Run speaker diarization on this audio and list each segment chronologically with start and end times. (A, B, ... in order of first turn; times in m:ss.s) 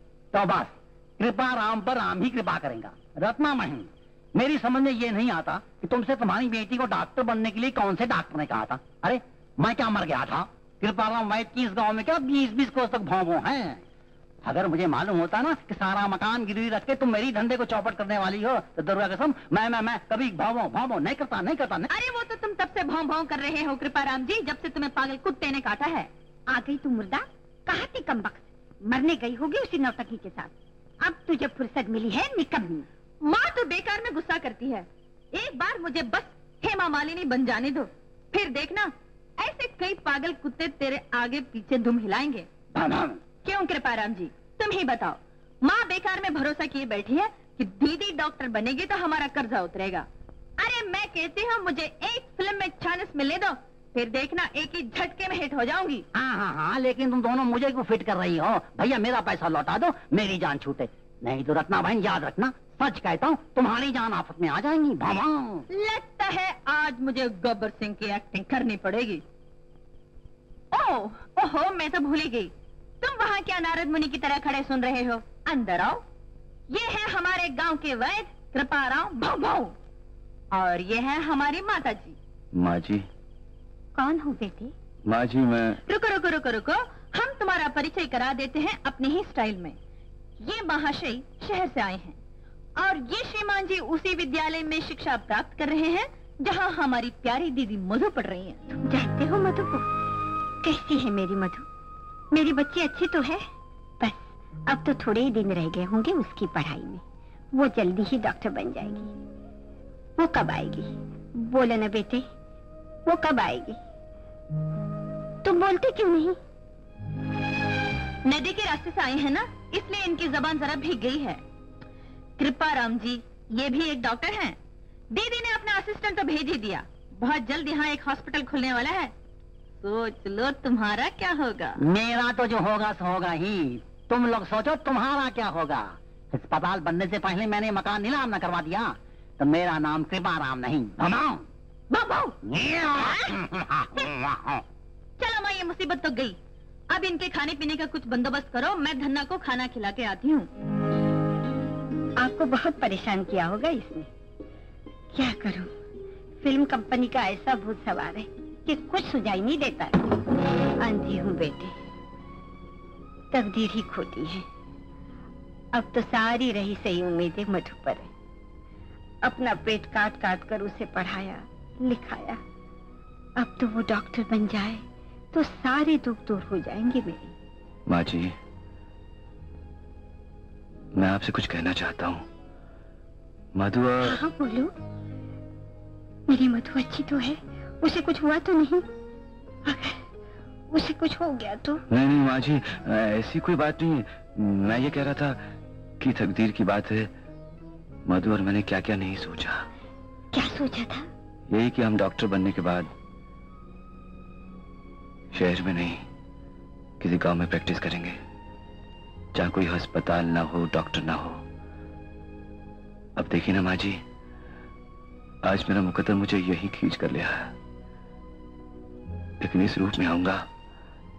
0:00.3-0:13.8 A
0:14.4-0:21.9 A
0:21.9-0:26.1 B
0:26.5-0:32.8 C
0:33.2-0:42.5 B
0:42.7-0:43.2 A
0:43.4-0:50.1 B
0:50.6-0:56.0 B
0:56.1-1:05.6 A
1:05.7-1:09.2 B
1:10.7-1:16.0 B
1:16.7-1:19.7 B
1:20.5-1:22.2 B
1:22.5-1:23.0 D
1:23.9-1:24.7 C
1:25.1-1:25.8 D
1:25.8-1:29.8 B
1:30.4-1:32.2 B
1:32.8-1:38.6 B
1:38.7-1:39.8 C
1:40.6-1:41.6 C
1:42.3-1:43.4 C
1:44.0-1:49.1 C
1:50.2-1:52.3 C
1:53.0-1:53.8 C
1:55.4-1:56.4 C
1:58.2-2:01.4 B
2:02.4-2:04.6 B
2:05.1-2:09.1 B
2:09.8-2:11.7 B
2:11.8-2:21.4 A
2:22.4-2:24.6 A
2:25.2-2:26.4 B
2:26.9-2:30.5 B
2:32.2-2:34.1 C
2:35.1-2:35.7 C
2:36.4-2:40.0 C
2:40.8-2:41.7 C
2:43.3-2:44.4 C
2:45.7-2:48.1 C
2:49.2-2:52.4 C
2:53.4-2:57.3 C
2:57.9-2:58.4 D
3:00.9-3:02.3 D
3:03.6-3:04.2 D
3:04.0-3:04.7 C
3:06.3-3:08.9 C
3:09.6-3:10.0 C
3:10.7-3:11.8 C
3:11.9-3:15.4 D
3:16.0-3:17.1 D
3:18.1-3:19.7 D
3:20.3-3:21.1 C
3:21.5-3:22.9 D
3:25.3-3:26.0 D
3:27.0-3:28.2 D
3:29.3-3:31.4 D
3:33.2-3:34.0 D
3:35.4-3:37.6 D
3:39.4-3:40.5 D